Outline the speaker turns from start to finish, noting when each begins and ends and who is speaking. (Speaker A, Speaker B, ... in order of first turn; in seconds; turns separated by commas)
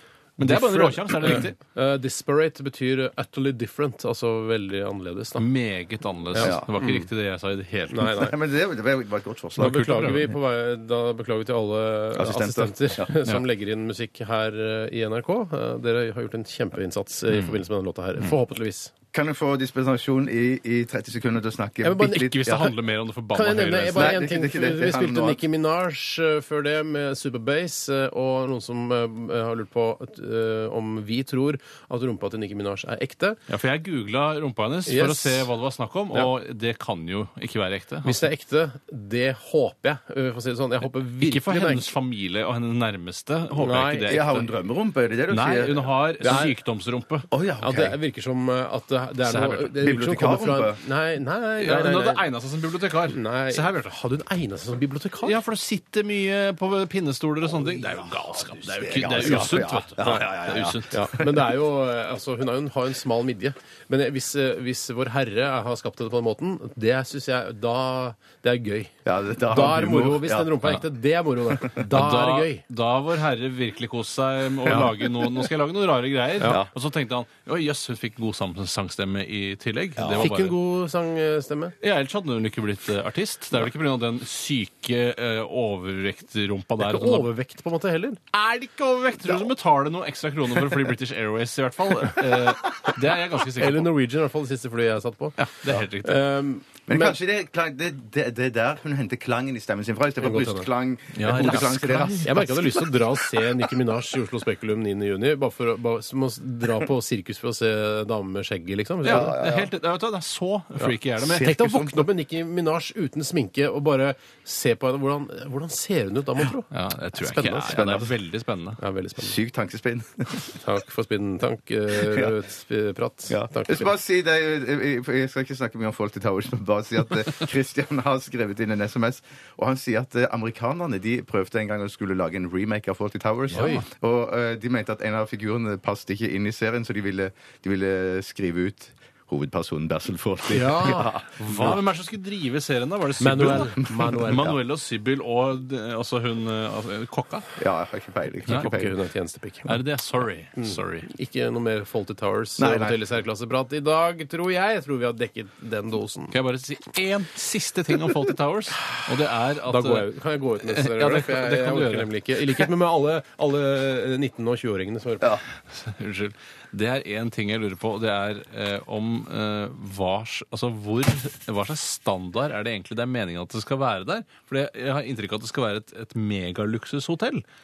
Speaker A: 0.4-1.6, Speaker B: 0.4-5.5, Speaker A: 5.4-8.2, Speaker B: 6.3-7.1, Speaker C: 6.4-6.7, Speaker B: 7.9-8.3, Speaker C: 8.1-9.8, Speaker B: 9.6-18.9, Speaker A: 9.6-10.3, Speaker C: 12.2-13.1, Speaker C: 19.1-22.7, Speaker B: 21.8-22.7, Speaker A: 22.1-24.1, Speaker B: 23.3-33.4, Speaker C: 23.9-25.4, Speaker A: 33.5-38.3, Speaker B: 34.9-35.5, Speaker B: 38.0-41.9, Speaker A: 41.2-44.5, Speaker B: 43.6-44.2, Speaker C: 44.1-45.9, Speaker A: 45.3-47.3, Speaker B: 46.2-46.5, Speaker C: 47.3-48.0, Speaker B: 47.6-52.2, Speaker A: 49.2-49.7, Speaker C: 49.8-50.8, Speaker A: 51.6-53.9, Speaker B: 53.1-55.4, Speaker A: 55.2-61.2, Speaker C: 57.8-60.9, Speaker B: 60.9-68.9, Speaker C: 69.0-70.5, Speaker B: 69.5-72.6, Speaker A: 71.8-80.6, Speaker C: 80.0-80.3, Speaker B: 80.2-81.7, Speaker A: 81.8-87.3, Speaker B: 86.8-88.2, Speaker A: 88.3-93.9, Speaker B: 93.5-95.4, Speaker A: 95.4-96.2, Speaker B: 96.0-97.2, Speaker C: 96.9-103.7, Speaker B: 100.2-100.7, Speaker A: 101.1-102.3, Speaker B: 102.2-109.4, Speaker C: 109.0-109.7, Speaker A: 109.0-111.5, Speaker B: 110.8-117.8, Speaker C: 111.2-112.1, Speaker A: 116.7-118.8, Speaker C: 117.7-118.1, Speaker B: 118.8-119.4, Speaker C: 119.2-120.5, Speaker B: 120.5-123.9, Speaker C: 121.9-122.3, Speaker C: 123.3-141.7, Speaker B: 133.5-133.8, Speaker A: 133.5-133.8, Speaker B: 140.5-141.8, Speaker A: 141.4-147.5, Speaker B: 143.2-144.6, Speaker C: 147.6-148.9, Speaker B: 148.5-149.7, Speaker A: 149.7-151.1, Speaker B: 150.6-156.3, Speaker C: 152.6-153.0, Speaker A: 156.3-160.1, Speaker B: 159.7-165.4, Speaker A: 160.6-162.1, Speaker A: 165.7-177.4